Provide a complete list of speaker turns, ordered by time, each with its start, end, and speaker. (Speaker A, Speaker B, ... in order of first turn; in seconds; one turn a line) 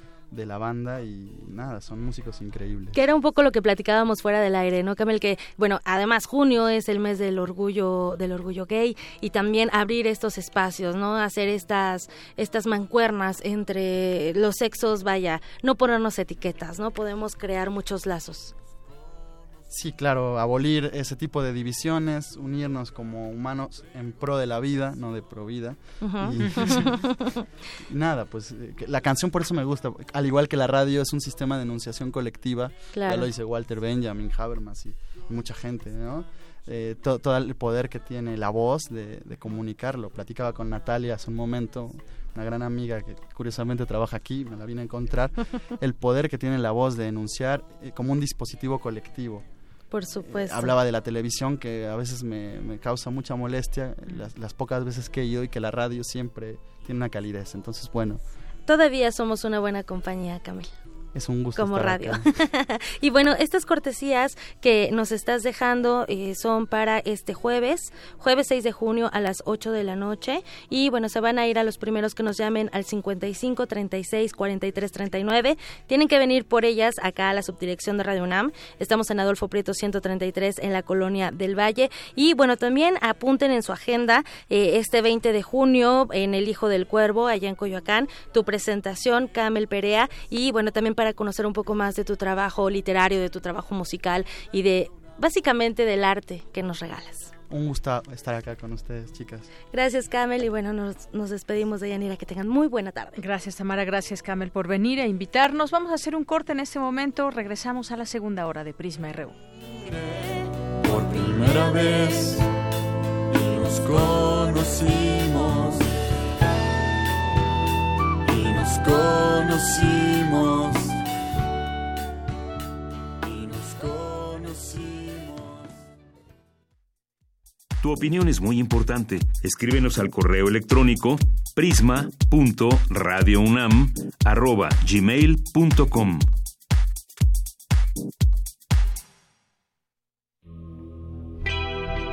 Speaker A: 0.3-3.0
Speaker B: 2.9-18.5
Speaker A: 19.7-27.0
Speaker B: 26.0-27.2
Speaker C: 26.4-26.8
Speaker A: 27.9-49.5
Speaker B: 32.9-33.3
Speaker B: 49.9-50.7
Speaker A: 50.1-58.2
Speaker B: 58.6-60.7
Speaker A: 61.1-62.2
Speaker B: 61.5-97.3
Speaker A: 97.5-99.5
Speaker B: 99.7-103.2
Speaker C: 103.2-109.4
Speaker D: 110.8-112.5
Speaker D: 113.3-115.8
Speaker D: 118.2-120.9
Speaker D: 123.2-125.6
Speaker E: 127.8-136.3